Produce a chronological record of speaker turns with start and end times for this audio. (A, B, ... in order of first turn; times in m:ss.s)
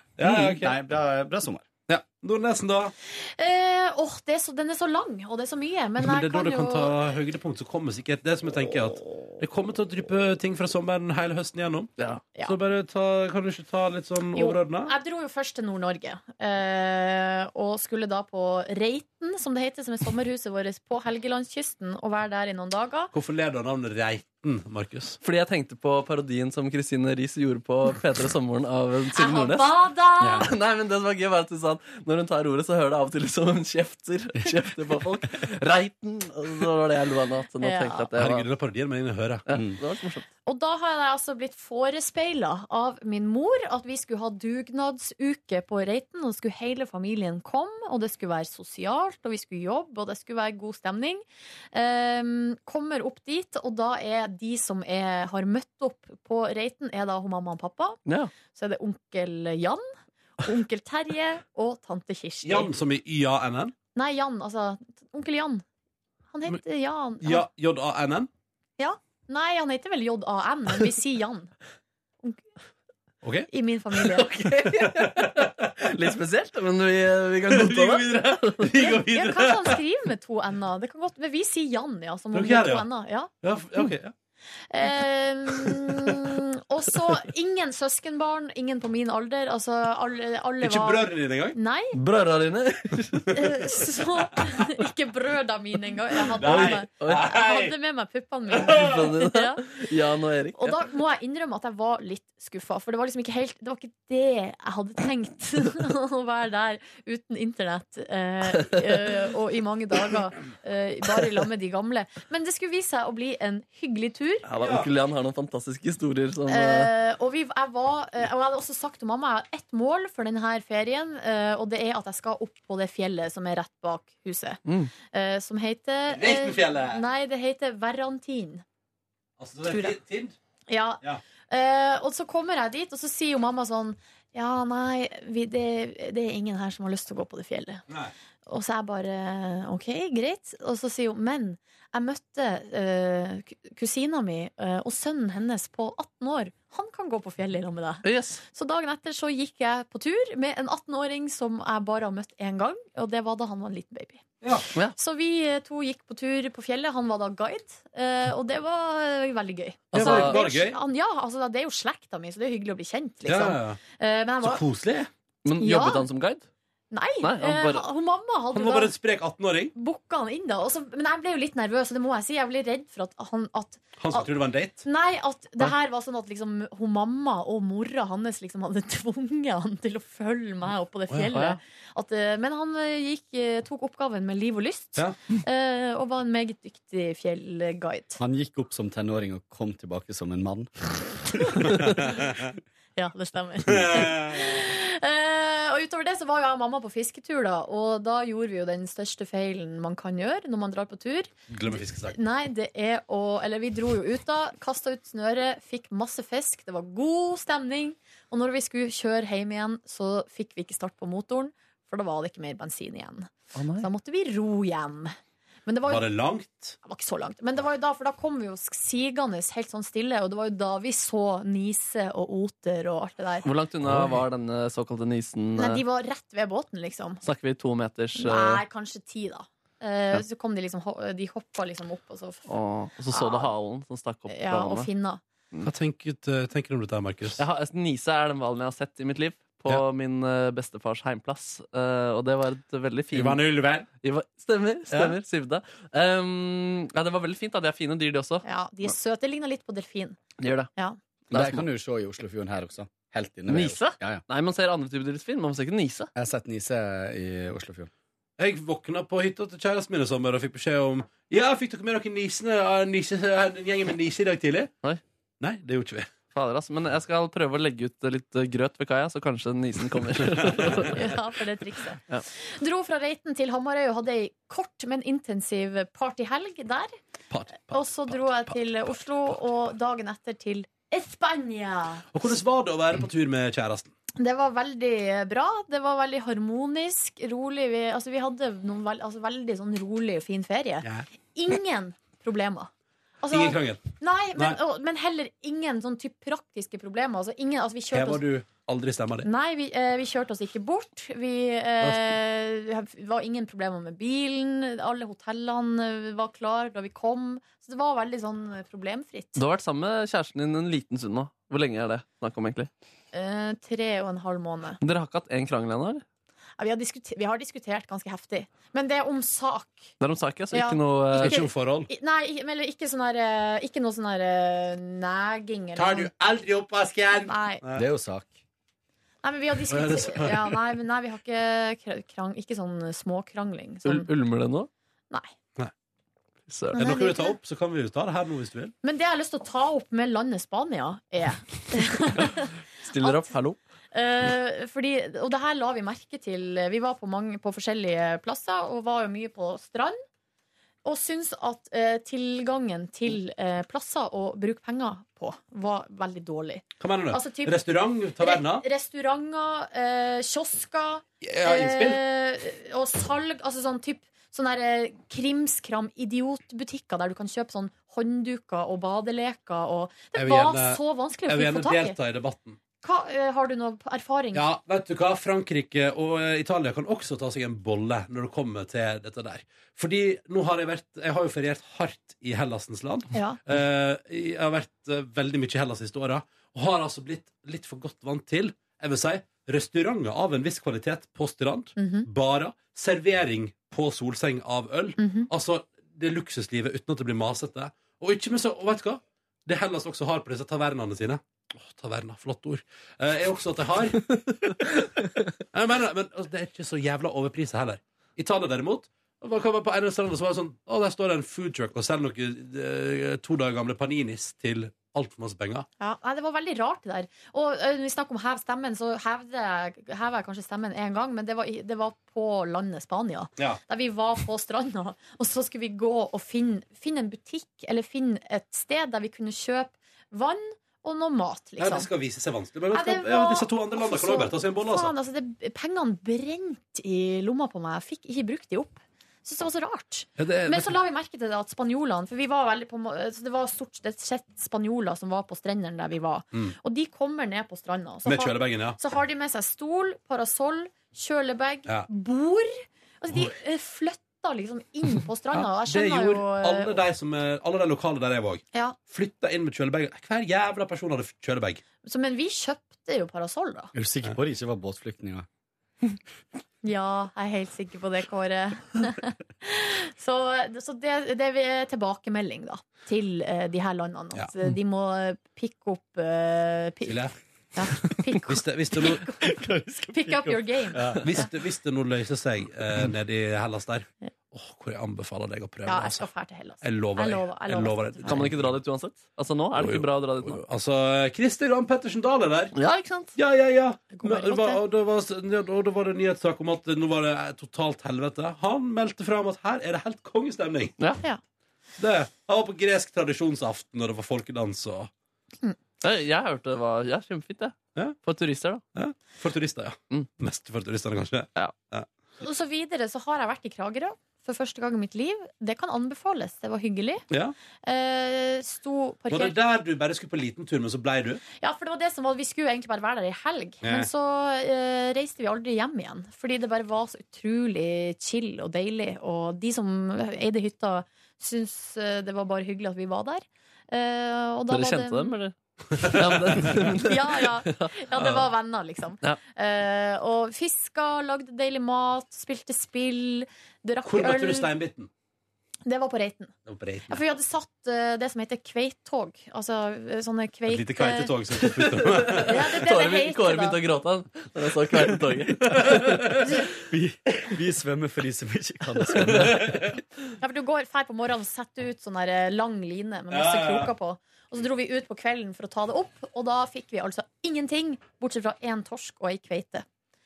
0:00.2-0:00.8 A
0:00.2-0:01.7 B
0:01.9-0:02.9 A
0:03.1-0:07.0 C
0:06.0-0:11.9 A
0:12.4-0:14.9 A
0:14.3-0:23.1 C
0:23.1-0:25.2 A
0:25.2-0:29.8 D
0:29.2-0:30.5 C
0:30.2-0:30.5 B
0:30.4-0:38.5 D
0:37.6-0:38.1 C
0:38.2-0:39.4 A
0:39.5-0:40.2 D
0:39.5-0:39.8 B
0:40.4-0:58.0 C
0:58.0-0:58.3 D
0:58.5-0:59.8 C
1:00.4-1:02.7 C
1:02.4-1:03.7 A
1:03.9-1:05.6 C
1:06.3-1:07.4 C
1:07.2-1:08.3 A
1:08.8-1:11.5 C
1:13.2-1:13.5 A
1:13.5-1:14.3 C
1:14.2-1:18.6 D
1:14.6-1:15.7 A
1:17.5-1:19.8 A
1:18.8-1:23.3 C
1:22.3-1:22.8 A
1:23.4-1:24.1 A
1:24.7-1:31.9 C
1:30.6-1:31.6 A
1:31.9-1:33.3 D
1:33.3-1:39.6 C
1:36.4-1:37.7 A
1:36.4-1:37.2 D
1:38.7-1:40.8 D
1:40.6-1:54.4 C
1:48.5-1:49.1 D
1:54.4-1:56.9 D
1:54.6-1:54.9 A
1:56.5-2:08.6 C
2:04.6-2:04.9 D
2:06.1-2:07.0 A
2:09.4-2:10.4 A
2:09.7-2:10.0 C
2:10.7-2:17.8 C
2:18.4-2:34.3 C
2:28.0-2:28.4 D
2:35.0-2:44.6 C
2:39.9-2:40.8 A
2:39.9-2:40.4 D
2:43.2-2:43.8 A
2:44.4-2:45.1 A
2:45.4-2:46.4 D
2:45.6-2:46.0 C
2:46.9-2:48.9 C
2:47.2-2:47.8 D
2:48.5-2:49.7 A
2:49.7-2:54.3 C
2:54.0-2:54.8 A
2:54.8-3:08.2 C
3:01.3-3:01.6 D
3:08.2-3:11.8 B
3:11.8-3:12.5 A
3:13.0-3:21.3 C
3:13.6-3:14.5 A
3:21.5-3:22.2 A
3:22.0-3:35.1 C
3:33.6-3:33.9 D
3:35.6-3:36.0 C
3:35.9-3:36.8 A
3:36.8-3:43.4 C
3:43.4-3:45.8 D
3:43.8-3:44.2 A
3:45.6-3:47.2 C
3:47.2-3:48.6 D
3:48.2-3:52.5 C
3:52.5-3:54.9 D
3:53.1-3:53.5 C
3:54.3-3:55.2 C
3:55.6-3:57.4 A
3:57.4-4:03.4 D
4:03.1-4:03.9 A
4:04.0-4:08.4 D
4:08.4-4:10.2 C
4:10.4-4:10.7 D
4:11.3-4:14.2 B
4:11.3-4:11.6 D
4:13.5-4:16.1 D
4:16.1-4:17.9 B
4:18.4-4:24.7 A
4:25.4-4:26.1 A
4:26.3-4:31.1 D
4:30.3-4:30.9 A
4:30.9-4:36.9 C
4:37.3-4:39.3 A
4:37.7-4:42.0 C
4:42.1-4:43.9 A
4:44.2-4:52.7 C
4:53.2-4:58.2 C
4:53.3-4:53.8 A
4:57.9-4:59.3 A
4:59.2-5:09.4 C
5:01.8-5:02.2 A
5:09.4-5:12.7 D
5:13.1-5:14.8 C
5:14.8-5:16.0 D
5:16.6-5:19.9 C
5:20.0-5:21.4 D
5:20.5-5:26.1 C
5:21.1-5:21.9 A
5:25.8-5:27.8 A
5:27.2-5:27.6 C
5:27.7-5:28.3 B
5:29.2-5:34.1 C
5:29.7-5:30.6 A
5:33.8-5:34.7 D
5:36.5-5:36.8 D
5:36.7-5:37.4 C
5:36.7-5:38.7 A
5:38.8-5:43.3 C
5:42.8-5:43.6 D
5:43.9-5:50.0 C
5:50.8-5:57.6 C
5:56.8-5:58.6 A
5:58.2-6:12.0 C
6:01.2-6:02.0 A
6:10.1-6:12.6 A
6:12.8-6:14.4 C
6:14.3-6:44.2 A
6:23.1-6:23.4 C
6:31.8-6:32.1 C
6:35.0-6:35.3 C
6:45.5-6:55.7 A
6:55.8-7:11.9 C
7:11.6-7:14.9 A
7:12.7-7:36.8 C
7:20.2-7:20.7 A
7:28.0-7:28.8 A
7:35.3-7:41.6 A
7:41.8-7:43.7 C
7:43.7-7:45.2 B
7:46.6-8:01.2 C
7:56.8-7:57.1 A
7:58.2-7:59.0 A
7:59.2-8:01.1 B
8:01.0-8:06.1 A
8:05.6-8:08.3 C
8:06.6-8:08.5 A
8:08.1-8:10.4 D
8:09.5-8:12.5 A
8:12.5-8:13.1 D
8:13.2-8:20.8 A
8:13.9-8:14.6 C
8:21.8-8:24.9 A
8:25.8-8:28.6 D
8:28.7-8:31.9 A
8:32.2-8:37.0 C
8:37.1-8:37.3 A
8:37.6-8:39.3 C
8:39.1-8:41.2 A
8:41.4-8:55.1 C
8:43.6-8:43.9 A
8:54.5-8:57.8 D
8:55.8-8:56.5 A
8:56.8-9:04.5 C
9:03.8-9:04.9 A
9:05.6-9:06.3 C
9:06.4-9:07.0 A
9:06.9-9:11.1 C
9:10.5-9:12.4 A
9:11.4-9:16.1 D
9:12.2-9:13.6 C
9:15.4-9:16.3 A
9:16.6-9:19.5 B
9:19.0-9:19.4 D
9:19.0-9:19.8 A
9:20.2-9:29.6 C
9:23.1-9:23.7 A